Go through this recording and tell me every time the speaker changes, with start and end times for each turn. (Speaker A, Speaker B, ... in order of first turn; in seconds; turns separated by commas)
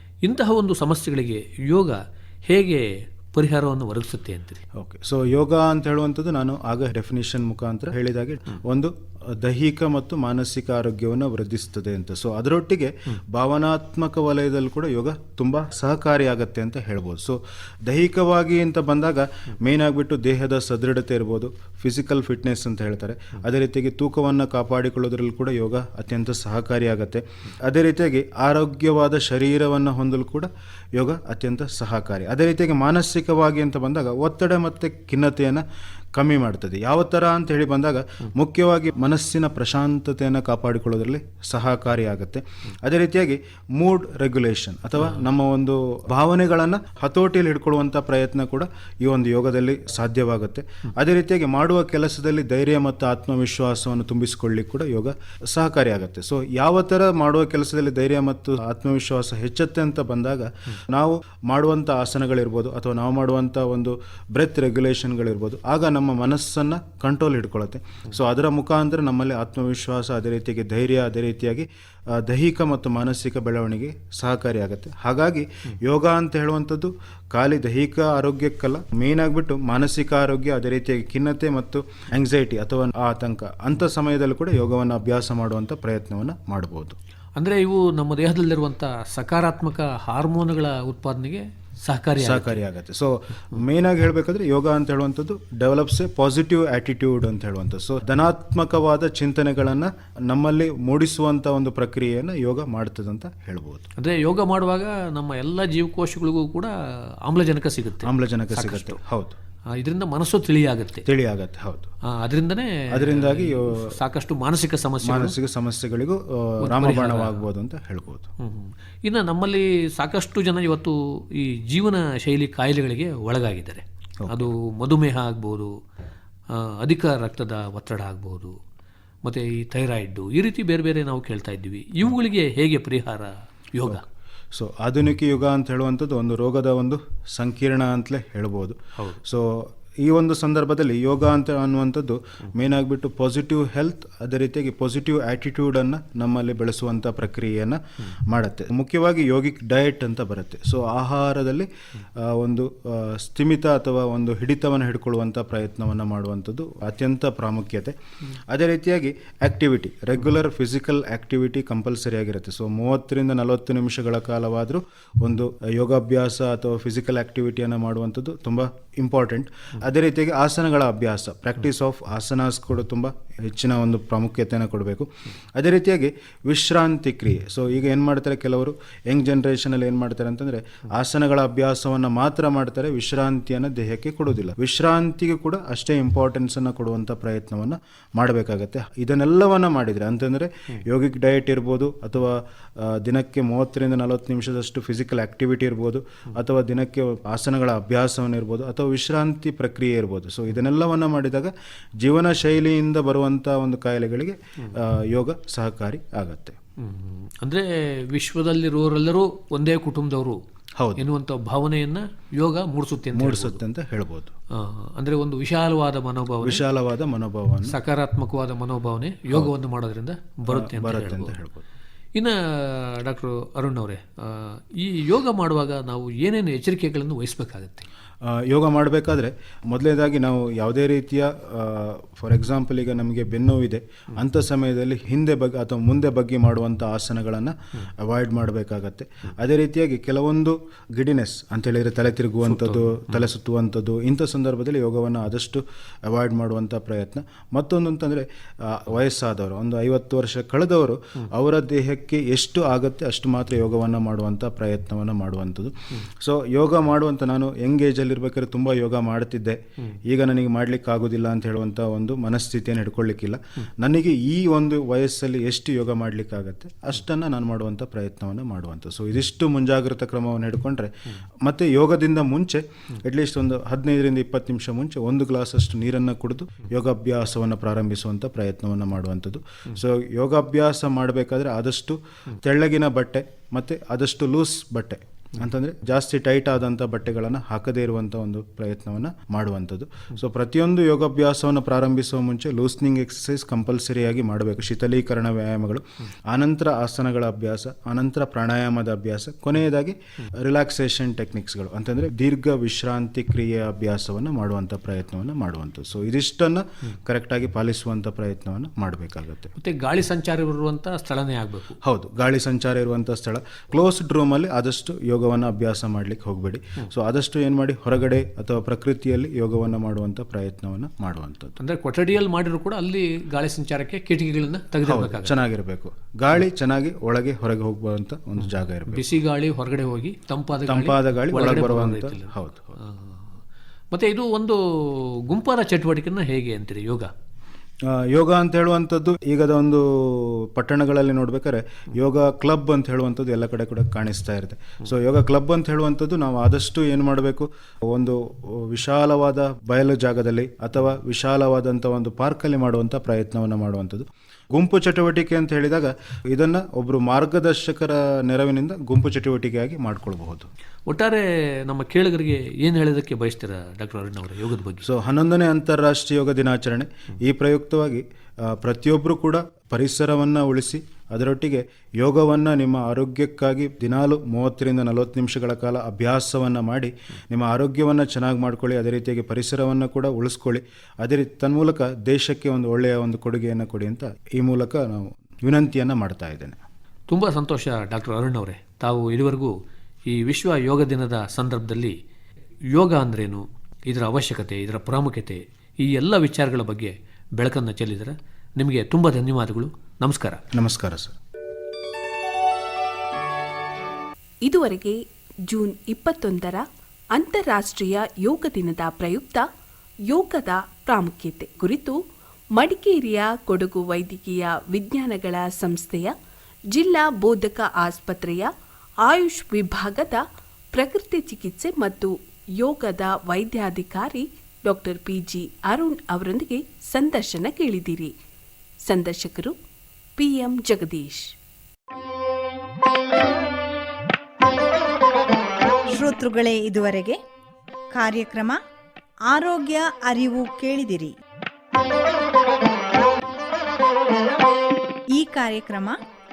Speaker A: 0.2-4.6, Speaker B: 4.8-35.6, Speaker B: 36.2-87.0, Speaker A: 87.4-92.6, Speaker B: 92.2-103.9, Speaker A: 104.0-106.7, Speaker A: 107.2-109.0, Speaker B: 108.0-109.4, Speaker A: 109.7-111.1, Speaker B: 111.1-111.9, Speaker A: 112.1-115.3, Speaker B: 112.9-114.0, Speaker B: 115.0-118.3, Speaker A: 116.6-117.5, Speaker A: 118.4-125.8, Speaker B: 124.2-124.5, Speaker A: 126.5-128.6, Speaker A: 129.2-134.0, Speaker B: 134.5-157.9, Speaker B: 158.5-206.6, Speaker A: 206.8-210.4, Speaker B: 210.8-211.1, Speaker A: 211.0-213.6, Speaker B: 213.1-214.3, Speaker A: 214.5-216.6, Speaker B: 216.4-217.8, Speaker A: 217.7-221.3, Speaker B: 220.5-221.7, Speaker A: 222.2-227.9, Speaker B: 228.2-270.9, Speaker A: 242.5-243.2, Speaker B: 271.4-309.5, Speaker A: 309.6-311.8, Speaker B: 311.8-321.6, Speaker A: 321.6-325.4, Speaker B: 324.8-329.1, Speaker A: 328.9-333.3, Speaker B: 330.7-332.8, Speaker A: 333.9-337.1, Speaker B: 337.9-360.5, Speaker A: 360.9-364.9, Speaker B: 364.8-386.6, Speaker A: 387.1-389.6, Speaker A: 390.1-392.0, Speaker A: 392.7-400.4, Speaker B: 400.5-401.2, Speaker C: 404.4-409.5, Speaker C: 410.1-412.0, Speaker C: 412.6-416.1, Speaker C: 416.7-418.5, Speaker C: 419.0-428.1, Speaker C: 428.9-429.6, Speaker C: 430.2-431.3, Speaker D: 435.9-437.2, Speaker D: 437.9-438.6, Speaker D: 439.3-441.1, Speaker D: 445.1-446.0